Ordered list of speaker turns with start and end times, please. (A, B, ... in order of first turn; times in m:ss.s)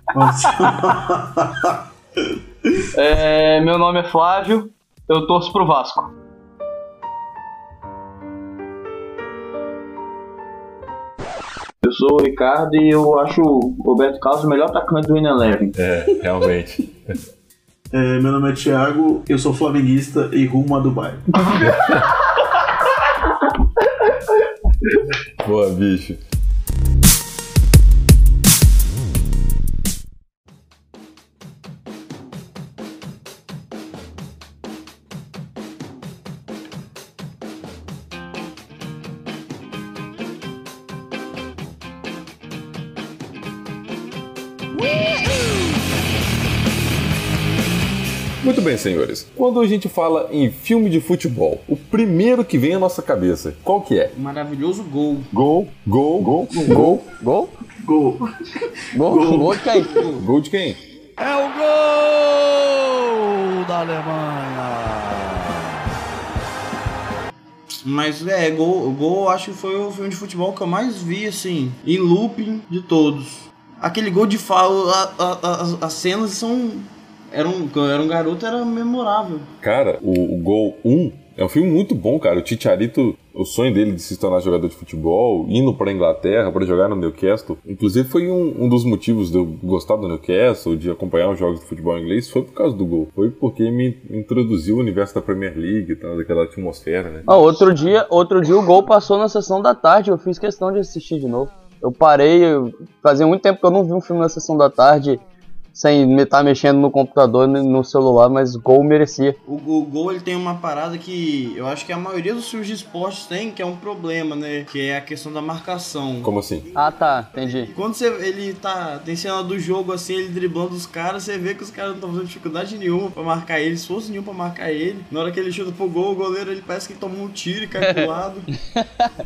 0:00.1-0:01.8 A
0:02.9-0:06.1 B
0:11.8-0:15.8 C
0:15.8-0:17.2 D
0:17.9-0:21.2 A
0:21.5-0:22.1 D
0:25.4-0:26.2 D
0:48.4-0:54.1 D
0:54.1-0:55.3 E
0:55.3-0:57.0 D
0:56.5-0:56.9 A
0:56.6-0:57.6 B
0:57.8-1:00.1 A
0:58.9-0:59.9 B
0:59.9-1:00.2 E
1:00.2-1:00.8 D
1:01.2-1:05.9 F
1:07.8-1:19.5 E
1:19.6-1:37.3 D
1:37.3-1:45.2 B
1:45.8-1:49.4 B
1:49.5-2:08.5 E
1:56.2-1:56.6 D
1:56.8-1:57.7 B
2:07.8-2:08.1 B
2:08.8-2:09.1 B